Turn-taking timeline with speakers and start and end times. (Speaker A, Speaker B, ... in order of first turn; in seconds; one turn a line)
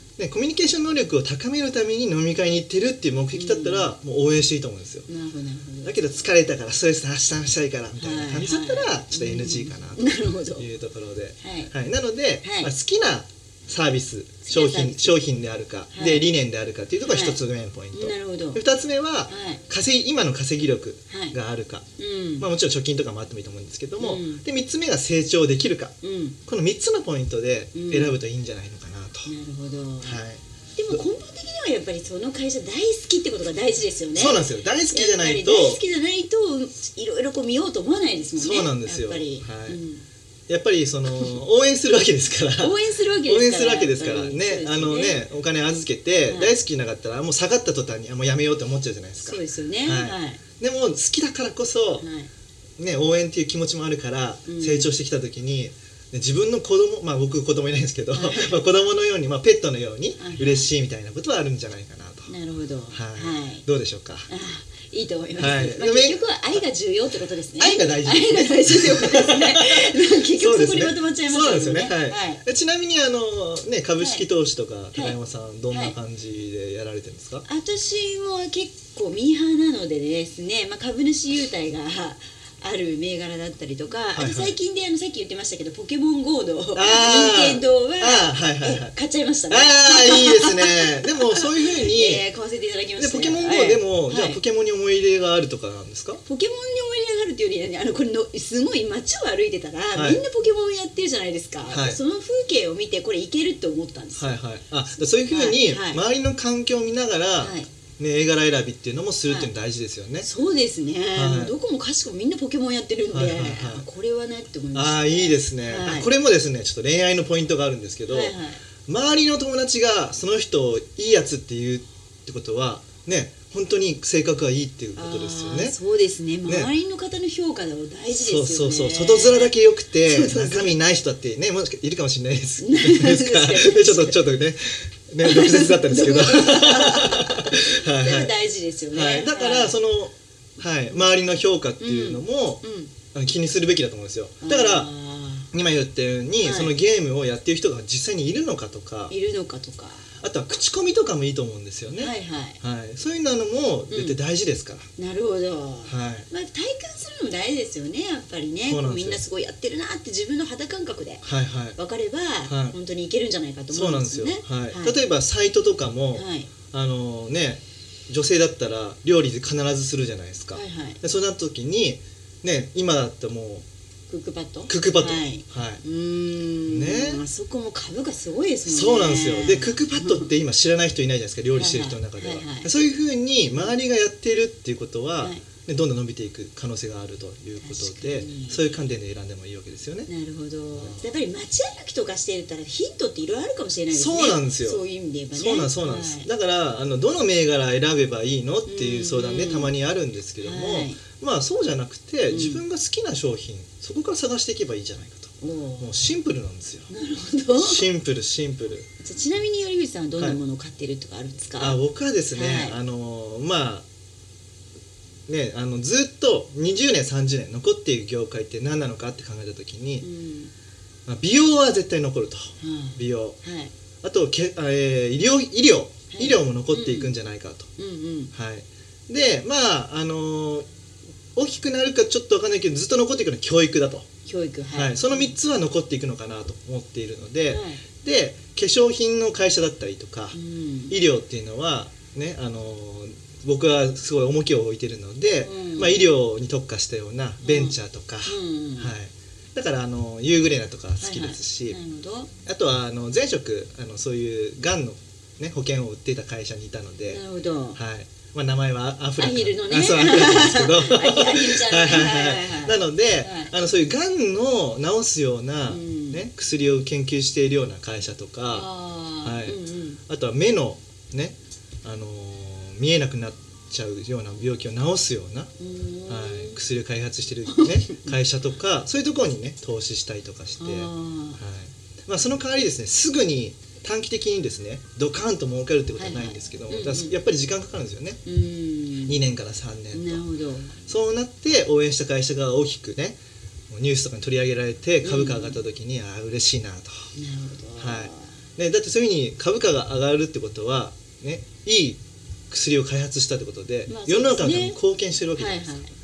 Speaker A: 0.2-5.1
Speaker B: 3.3-3.9
Speaker B: 5.1-6.0
Speaker A: 5.8-10.0
Speaker B: 8.0-10.7
Speaker A: 10.6-21.9
Speaker B: 11.4-11.7
Speaker B: 12.4-12.7
Speaker B: 14.5-15.2
Speaker B: 15.9-16.3
Speaker B: 17.0-17.4
Speaker B: 17.9-18.6
Speaker B: 19.3-19.6
Speaker B: 21.1-21.4
Speaker B: 22.0-22.5
Speaker A: 22.4-25.9
Speaker B: 24.0-24.4
Speaker B: 26.0-26.4
Speaker A: 26.5-29.3
Speaker B: 27.8-28.2
Speaker B: 29.3-30.2
Speaker A: 30.0-30.4
Speaker B: 30.8-40.0
Speaker A: 34.1-35.8
Speaker A: 38.4-39.8
Speaker A: 40.5-52.1
Speaker B: 42.6-45.3
Speaker B: 46.3-46.5
Speaker B: 49.2-50.4
Speaker B: 52.0-52.3
Speaker A: 52.8-62.3
Speaker B: 54.5-54.9
Speaker B: 58.1-58.7
Speaker B: 60.2-60.7
Speaker B: 62.3-63.6
Speaker A: 62.9-64.3
Speaker B: 64.3-72.4
Speaker A: 65.4-66.2
Speaker A: 67.6-77.5
Speaker B: 74.0-74.3
Speaker B: 74.9-76.0
Speaker B: 77.5-94.4
Speaker A: 84.1-84.6
Speaker A: 86.8-88.9
Speaker A: 89.5-92.2
Speaker A: 93.0-96.2
Speaker B: 96.3-104.4
Speaker A: 100.0-100.2
Speaker A: 101.7-102.0
Speaker A: 104.2-110.3
Speaker B: 104.9-106.0
Speaker B: 107.4-107.7
Speaker B: 110.2-116.1
Speaker A: 111.2-111.6
Speaker A: 113.1-113.9
Speaker A: 114.7-118.3
Speaker B: 118.1-118.6
Speaker A: 118.9-125.8
Speaker B: 125.0-130.8
Speaker A: 126.5-126.7
Speaker A: 128.1-144.9
Speaker B: 132.6-134.3
Speaker B: 135.2-139.8
Speaker B: 141.8-142.9
Speaker B: 144.4-145.5
Speaker A: 145.5-149.1
Speaker B: 146.4-146.8
Speaker B: 149.1-150.1
Speaker A: 150.2-154.9
Speaker B: 151.9-152.6
Speaker B: 153.9-154.2
Speaker B: 155.0-161.2
Speaker A: 155.9-156.3
Speaker A: 158.7-159.2
Speaker A: 161.2-161.8
Speaker B: 161.8-165.0
Speaker A: 162.5-162.8
Speaker A: 163.7-173.7
Speaker B: 166.1-166.5
Speaker B: 170.5-171.0
Speaker B: 174.1-180.3
Speaker A: 174.7-175.8
Speaker A: 176.7-177.2
Speaker A: 178.7-190.1
Speaker B: 181.6-182.7
Speaker B: 185.2-185.4
Speaker B: 187.6-188.8
Speaker B: 190.1-196.3
Speaker A: 190.8-191.1
Speaker A: 193.9-194.8
Speaker A: 195.3-206.9
Speaker B: 198.7-199.7
Speaker B: 200.4-201.0
Speaker B: 202.3-202.6
Speaker B: 205.4-206.1
Speaker B: 206.9-207.9
Speaker A: 207.6-208.9
Speaker B: 209.0-211.8
Speaker A: 211.6-213.9
Speaker B: 212.3-212.8
Speaker A: 215.3-220.1
Speaker B: 220.0-220.5
Speaker A: 221.1-223.4
Speaker B: 222.6-223.7
Speaker A: 224.0-227.7
Speaker B: 226.1-227.2
Speaker B: 227.8-228.3
Speaker A: 228.3-230.7
Speaker A: 231.3-234.1
Speaker B: 234.3-235.3
Speaker A: 234.7-240.4
Speaker B: 237.5-237.8
Speaker B: 240.3-241.0
Speaker A: 240.9-251.8
Speaker B: 245.4-246.1
Speaker B: 247.4-248.9
Speaker B: 251.0-252.3
Speaker A: 252.4-257.2
Speaker B: 257.1-257.8
Speaker A: 257.8-268.7
Speaker B: 259.2-263.5
Speaker B: 265.7-266.2
Speaker B: 268.5-270.0
Speaker A: 269.2-275.5
Speaker B: 275.6-276.6
Speaker A: 276.1-288.2
Speaker B: 277.5-278.1
Speaker B: 280.6-281.4
Speaker B: 286.0-287.2
Speaker B: 288.2-289.2
Speaker A: 289.1-290.2
Speaker B: 289.9-290.8
Speaker A: 290.9-293.2
Speaker A: 293.7-297.1
Speaker B: 295.0-295.6
Speaker B: 297.1-298.4
Speaker A: 297.8-302.0
Speaker A: 302.5-305.8
Speaker B: 303.9-304.8
Speaker B: 305.4-305.9